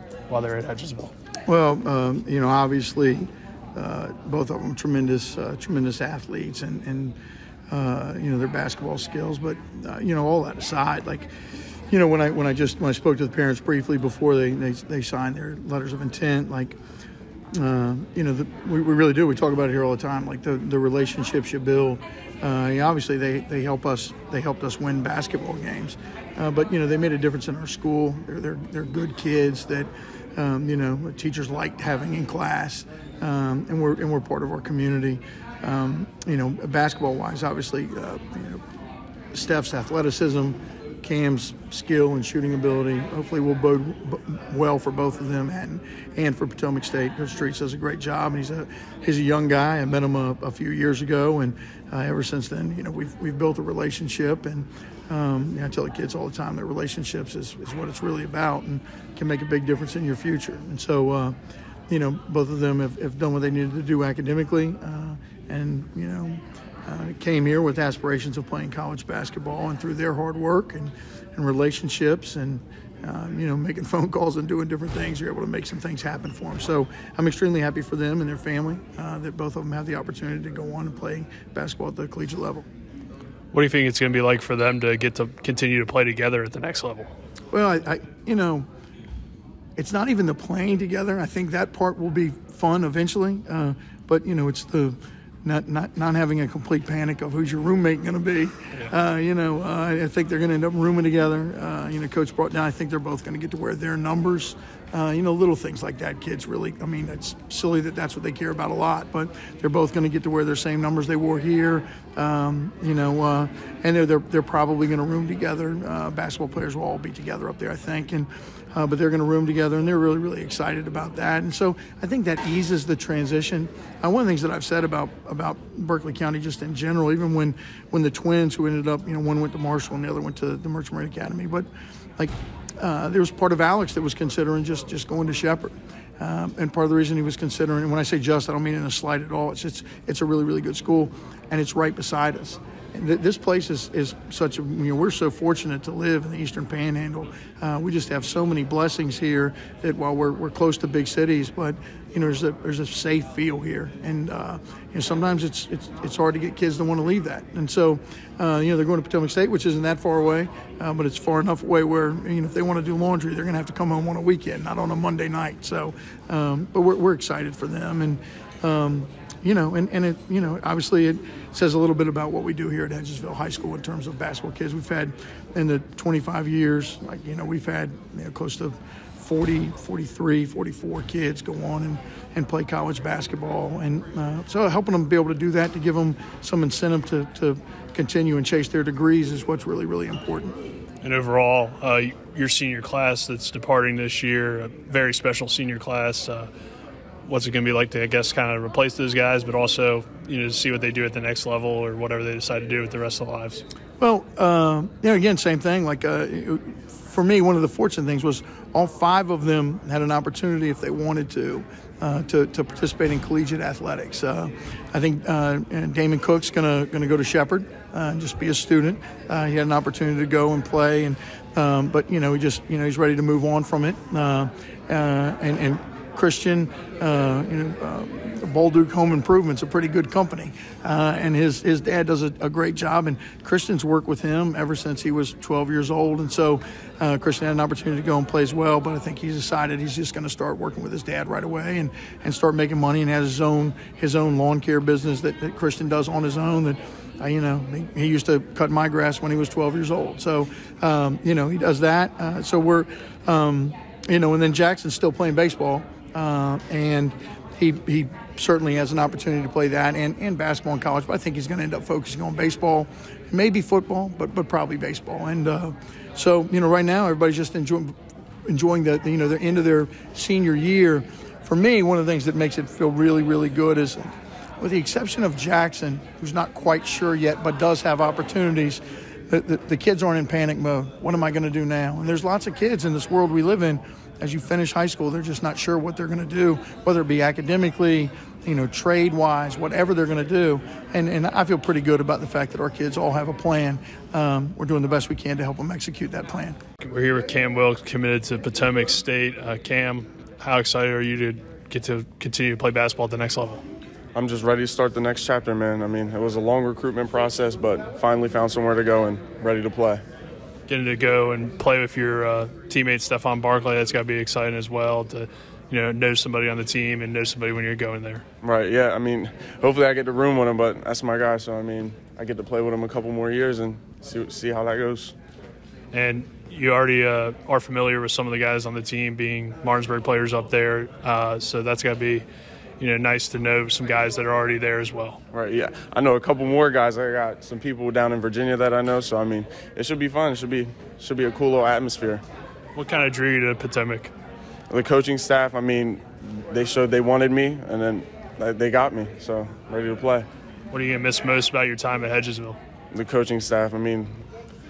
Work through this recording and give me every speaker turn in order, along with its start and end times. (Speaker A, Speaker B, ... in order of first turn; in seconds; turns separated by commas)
Speaker A: 0.3-1.1, Speaker B: 1.5-7.2, Speaker B: 7.7-11.3, Speaker B: 11.9-16.8, Speaker B: 17.5-38.6, Speaker B: 39.3-61.4, Speaker B: 61.9-82.7, Speaker A: 83.5-87.1, Speaker B: 87.5-88.7, Speaker B: 89.8-131.7, Speaker B: 132.2-190.6, Speaker A: 191.0-196.5, Speaker A: 197.2-203.6, Speaker B: 204.0-267.9, Speaker B: 268.5-296.6, Speaker A: 296.8-303.6, Speaker C: 304.1-310.0, Speaker A: 310.7-318.2, Speaker C: 318.4-325.1, Speaker A: 325.9-332.3, Speaker A: 332.8-335.2, Speaker C: 335.3-342.2, Speaker A: 342.8-344.1, Speaker C: 344.7-350.3, Speaker A: 350.7-352.6, Speaker C: 352.9-354.1